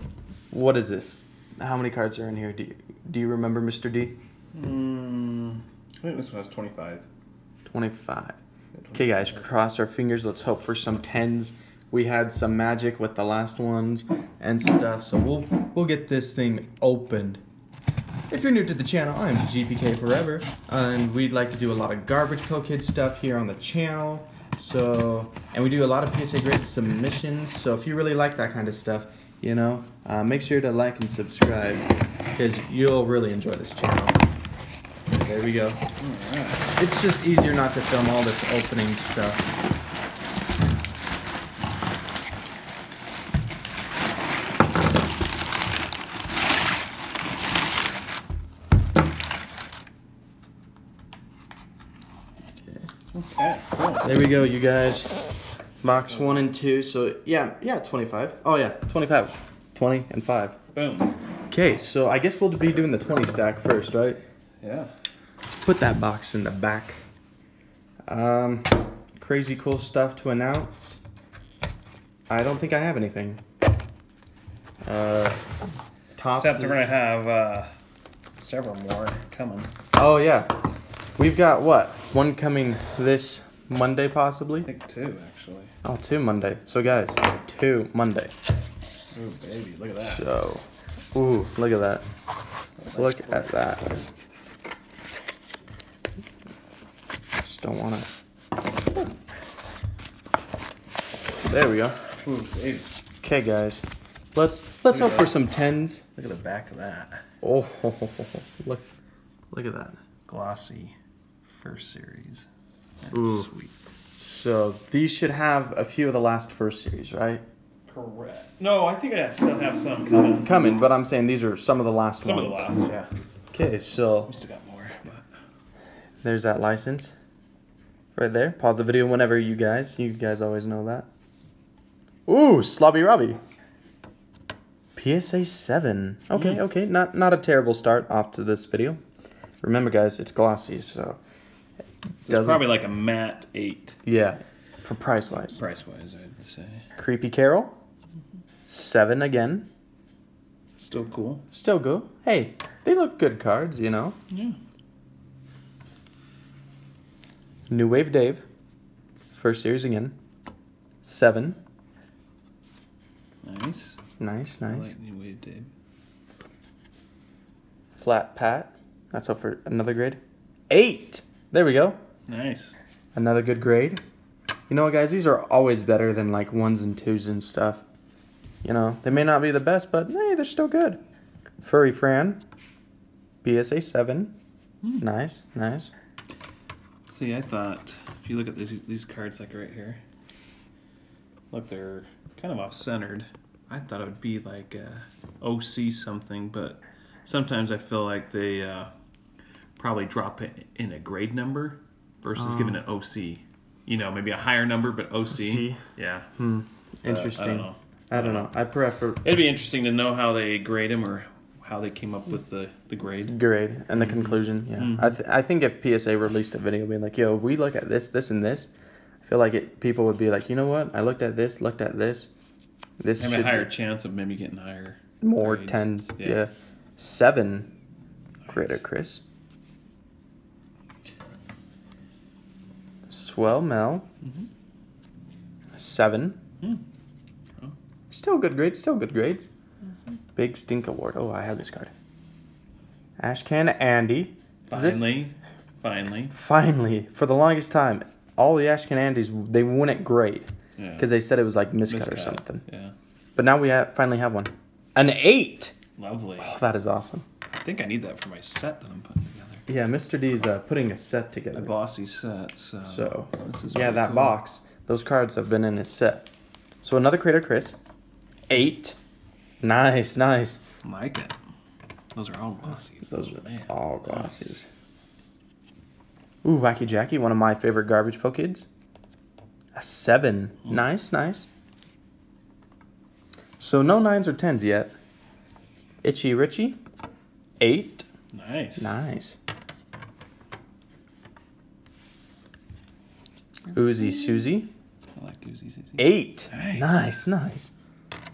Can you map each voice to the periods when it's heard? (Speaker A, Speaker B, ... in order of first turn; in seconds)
Speaker A: 0.5-4.2, 7.7-8.4, 8.9-17.4, 18.3-34.2, 35.2-35.9, 36.6-39.5, 54.0-55.2, 55.8-60.6, 61.5-64.2, 65.6-67.0, 68.1-71.0, 72.3-73.4, 74.8-75.5, 76.2-76.9, 80.0-80.5, 81.2-84.7, 85.8-88.3, 90.0-92.0, 93.0-94.0, 97.4-98.1, 101.4-102.0, 103.2-106.0, 107.4-108.9, 109.5-110.0, 113.1-113.5, 114.2-117.4, 120.4-122.7, 123.5-124.3, 126.2-127.2, 128.2-131.1, 132.3-133.4, 135.0-139.0, 139.6-141.2, 142.2-142.7, 144.1-145.6, 147.0-147.7, 148.6-149.7, 151.5-154.2, 157.7-158.4, 159.3-160.2, 161.0-161.6, 164.2-164.9, 167.9-170.2, 170.7-172.0, 173.2-174.0, 174.7-177.8, 178.6-181.0, 181.6-182.4, 183.4-184.3, 185.0-185.9, 202.3-202.8, 205.3-205.8, 206.4-209.2, 213.3-218.7, 219.2-222.3, 223.0-223.7, 225.2-227.7, 228.5-229.2, 233.1-234.1, 235.8-236.4, 238.1-239.5, 240.4-241.9, 243.2-245.1, 246.3-252.6, 253.4-255.7, 256.4-257.2, 259.7-261.7, 262.9-266.3, 266.8-267.8, 268.5-269.0, 269.6-270.6, 273.1-274.7, 276.4-278.7, 279.8-281.5, 283.6-284.9, 286.0-286.8, 287.6-288.1, 288.8-289.4, 293.7-294.7, 296.0-297.7
Speaker B: 4.5-7.1, 8.8-9.5, 36.0-36.7, 53.1-54.5, 55.8-56.5, 60.7-61.1, 64.6-64.9, 76.3-77.7, 78.4-79.7, 84.6-85.7, 89.1-90.3, 92.8-94.0, 102.1-102.9, 104.9-105.4, 106.2-107.2, 110.3-111.0, 111.5-112.5, 113.0-113.7, 117.9-120.9, 122.2-123.1, 124.3-125.3, 136.3-136.6, 142.2-144.0, 145.5-146.9, 150.8-151.4, 154.3-154.6, 163.4-164.0, 164.7-165.7, 172.3-172.8, 187.1-190.0, 191.5-198.9, 199.8-206.3, 207.1-208.5, 209.2-213.4, 213.9-215.2, 223.2-226.4, 234.2-234.5, 244.7-246.3, 250.8-251.1, 251.9-252.9, 256.0-256.5, 257.6-259.6, 261.5-264.4, 270.8-271.4, 272.1-274.5, 288.3-289.0, 293.7-294.4, 295.2-297.2